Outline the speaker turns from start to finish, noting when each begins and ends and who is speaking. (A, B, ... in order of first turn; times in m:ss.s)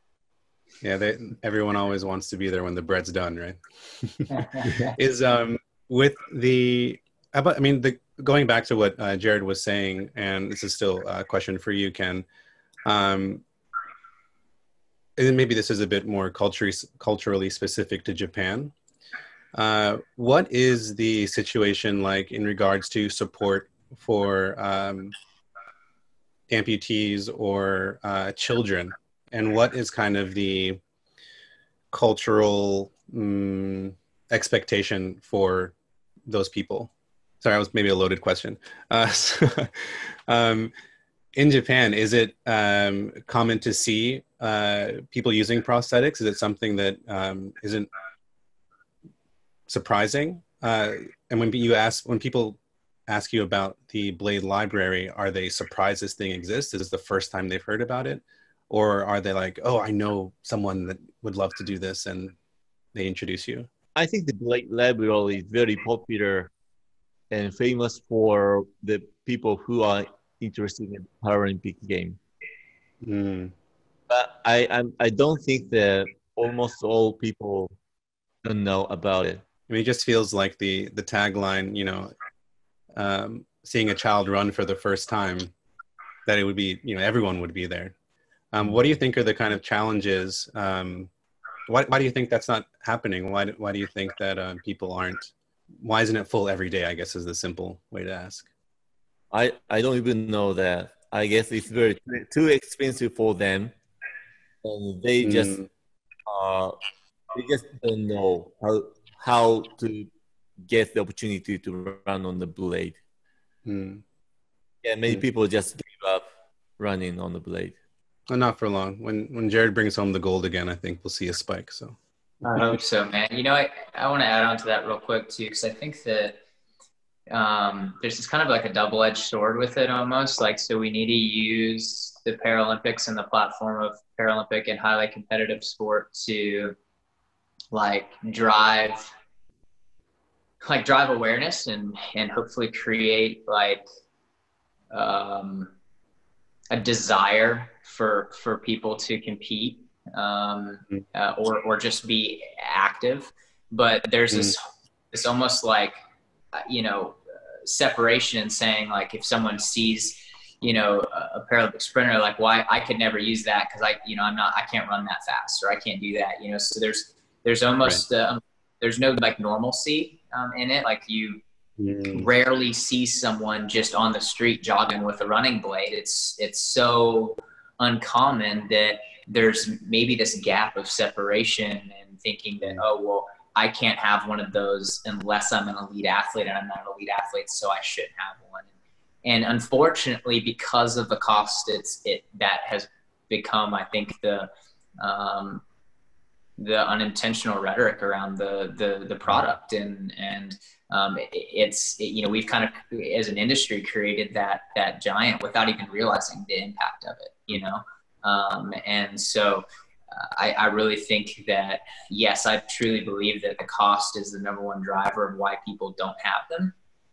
0:00.8-0:12.3 A
0:12.9-0:13.4 A
0:15.2-0:18.8 A
0:19.6-0:25.1 A
0:26.5-0:30.8 A
0:31.9-0:35.8 A
0:36.3-0:36.9 A
0:37.4-0:40.7 A
0:41.4-0:47.9 A
0:49.7-1:02.4 A
1:02.9-1:03.7 A
1:04.0-1:06.5 B
1:07.3-1:12.2 B
1:13.0-1:13.5 A
1:14.1-1:17.8 B
1:18.4-1:19.4 B
1:19.7-1:22.1 A
1:23.0-1:25.5 A
1:26.3-1:28.0 A
1:28.5-1:31.1 A
1:31.7-1:38.5 A
1:39.3-1:43.7 B
1:44.6-1:45.6 B
1:45.2-1:45.7 A
1:46.3-1:46.8 B
1:47.3-1:50.1 B
1:50.6-1:53.0 B
1:53.7-1:54.0 A
1:54.8-1:56.2 B
1:56.8-1:57.8 B
1:58.3-2:02.0 A
2:02.4-2:06.4 C
2:07.3-2:16.8 C
2:17.7-2:19.1 C
2:20.6-2:23.8 C
2:24.9-2:25.7 C
2:26.7-2:36.0 C
2:36.6-2:51.4 C
2:51.8-2:52.3 A
2:52.1-3:08.7 C
3:09.2-3:14.5 C
3:15.0-3:15.6 C
3:16.6-3:36.8 C